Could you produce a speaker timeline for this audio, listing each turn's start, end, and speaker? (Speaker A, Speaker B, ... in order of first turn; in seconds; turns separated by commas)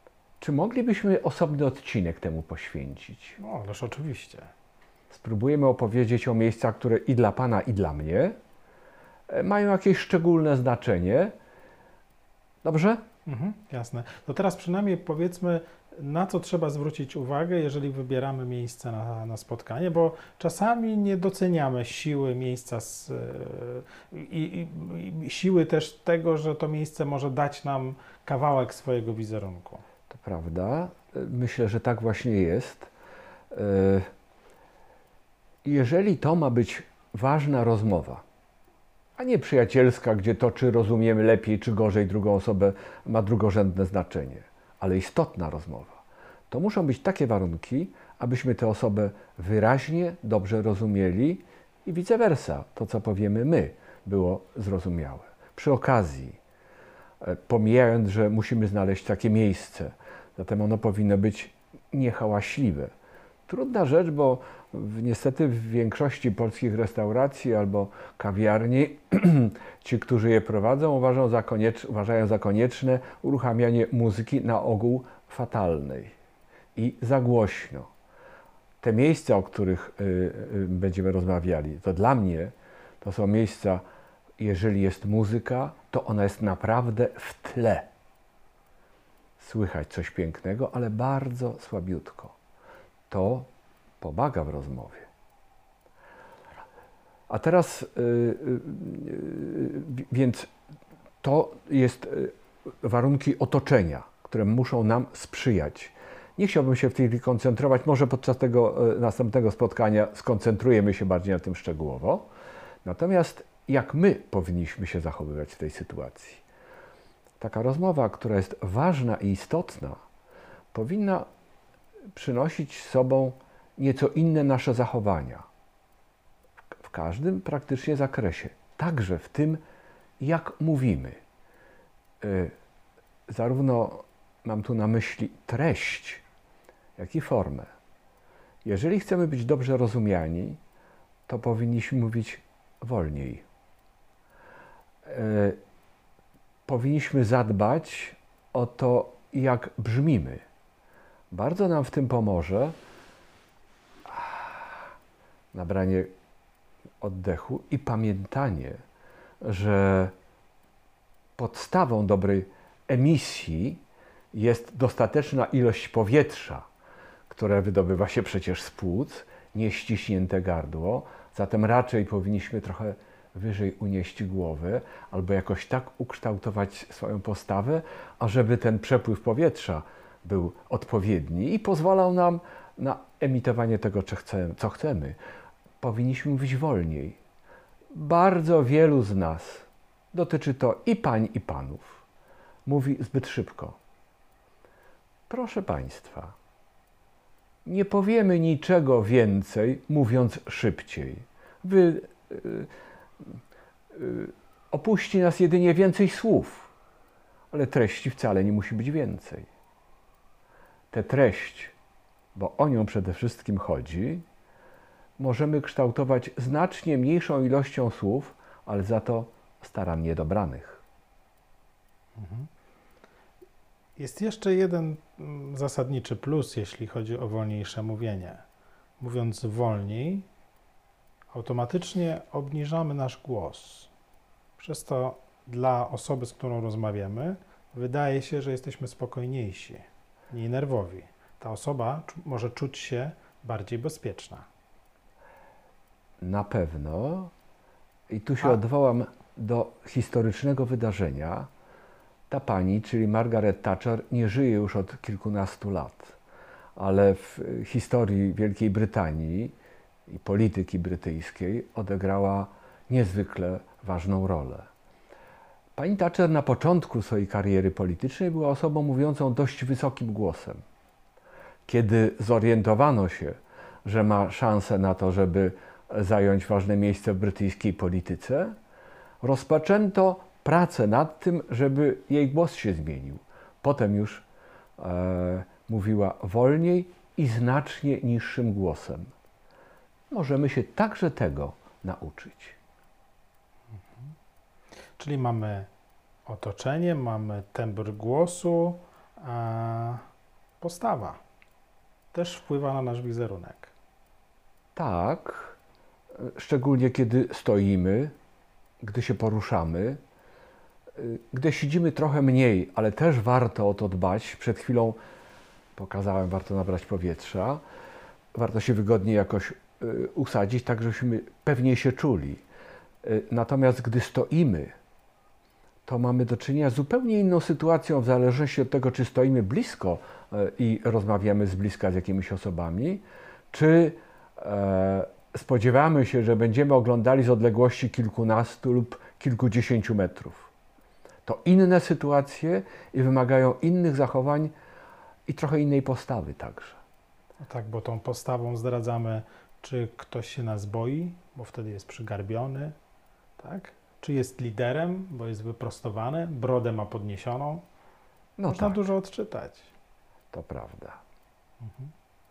Speaker A: 0.4-3.4, Speaker B: 3.4-4.5, Speaker A: 5.1-8.4, Speaker A: 9.3-11.3, Speaker A: 12.6-13.0, Speaker B: 13.3-29.8, Speaker A: 30.1-32.9, Speaker A: 33.5-34.1, Speaker A: 35.6-38.2, Speaker A: 39.2-56.4, Speaker A: 57.2-62.9, Speaker A: 63.5-76.1, Speaker A: 76.8-77.9, Speaker A: 78.8-83.8, Speaker A: 84.4-87.9, Speaker A: 89.4-92.3, Speaker A: 93.1-93.5, Speaker A: 94.0-95.1, Speaker A: 97.3-100.5, Speaker A: 101.2-112.3, Speaker A: 112.8-116.4, Speaker A: 117.4-120.0, Speaker A: 120.7-121.3, Speaker A: 122.1-125.5, Speaker A: 126.8-129.6, Speaker A: 130.2-131.2, Speaker A: 132.2-132.5, Speaker A: 133.3-136.2, Speaker A: 137.0-137.7, Speaker A: 138.6-140.6, Speaker A: 141.3-143.4, Speaker A: 145.1-145.6, Speaker A: 146.7-150.4, Speaker A: 151.3-152.8, Speaker A: 154.1-154.9, Speaker A: 155.5-156.1, Speaker A: 157.0-158.8, Speaker A: 159.4-160.1, Speaker A: 161.4-163.8, Speaker A: 164.3-166.7, Speaker A: 167.3-185.2, Speaker A: 185.8-187.2, Speaker A: 187.9-192.0, Speaker A: 192.7-193.8, Speaker A: 195.3-196.3, Speaker A: 197.7-202.7, Speaker A: 203.9-206.7, Speaker A: 207.5-209.5, Speaker A: 210.9-211.7, Speaker A: 212.3-214.2, Speaker A: 215.2-220.8, Speaker B: 222.2-222.5, Speaker B: 224.0-228.4, Speaker B: 229.0-230.3, Speaker B: 231.3-233.9, Speaker B: 234.6-244.5, Speaker A: 246.2-247.3, Speaker A: 248.1-251.5, Speaker A: 252.3-256.2, Speaker A: 256.8-259.6, Speaker A: 260.1-264.7, Speaker A: 265.8-270.6, Speaker A: 271.7-278.6, Speaker A: 279.2-284.2, Speaker A: 284.8-289.1, Speaker A: 290.1-292.6, Speaker B: 295.0-295.7, Speaker B: 296.3-300.0, Speaker B: 300.6-301.2, Speaker B: 302.1-303.7, Speaker A: 304.8-305.6, Speaker A: 306.2-308.1, Speaker A: 308.8-310.0, Speaker A: 310.9-315.0, Speaker A: 315.8-317.6, Speaker A: 318.3-322.4, Speaker A: 323.0-324.7, Speaker A: 325.9-340.5, Speaker A: 341.2-344.5, Speaker A: 345.3-346.8, Speaker B: 347.4-352.8, Speaker B: 353.4-357.6, Speaker A: 358.4-358.8, Speaker B: 358.5-359.7, Speaker A: 360.3-361.0, Speaker B: 361.6-361.9